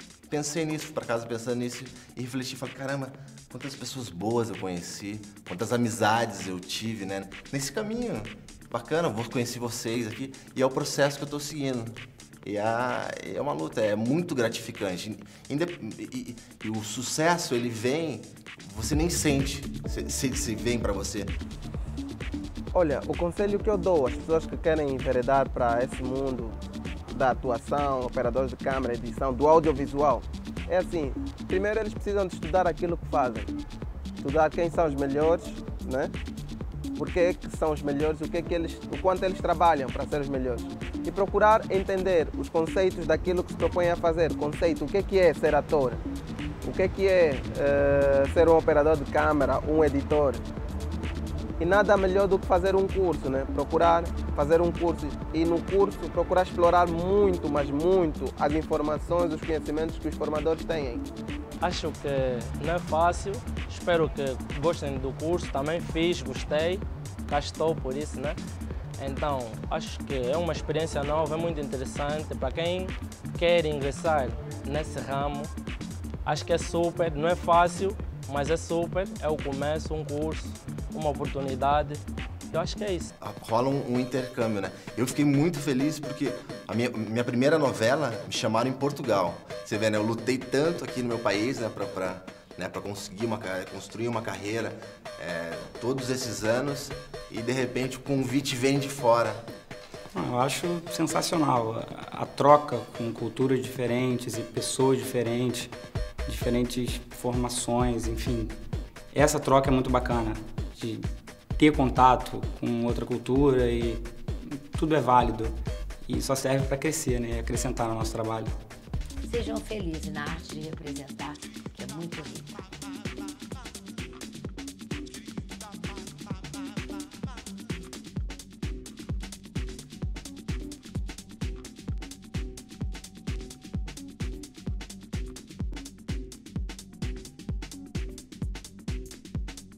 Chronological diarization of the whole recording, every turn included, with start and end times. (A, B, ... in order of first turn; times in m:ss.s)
0:00.3-0:21.4 A
0:22.7-0:26.6 B
0:27.1-0:33.5 B
0:34.2-0:36.1 B
0:37.0-0:46.0 B
0:46.6-0:50.4 B
0:51.6-1:01.1 B
1:01.6-1:08.4 C
1:09.0-1:15.5 C
1:16.2-1:23.1 C
1:23.2-1:39.5 A
1:40.1-1:45.7 D
1:46.2-1:48.6 D
1:49.1-1:51.0 D
1:51.6-1:58.5 D
1:59.2-2:02.6 E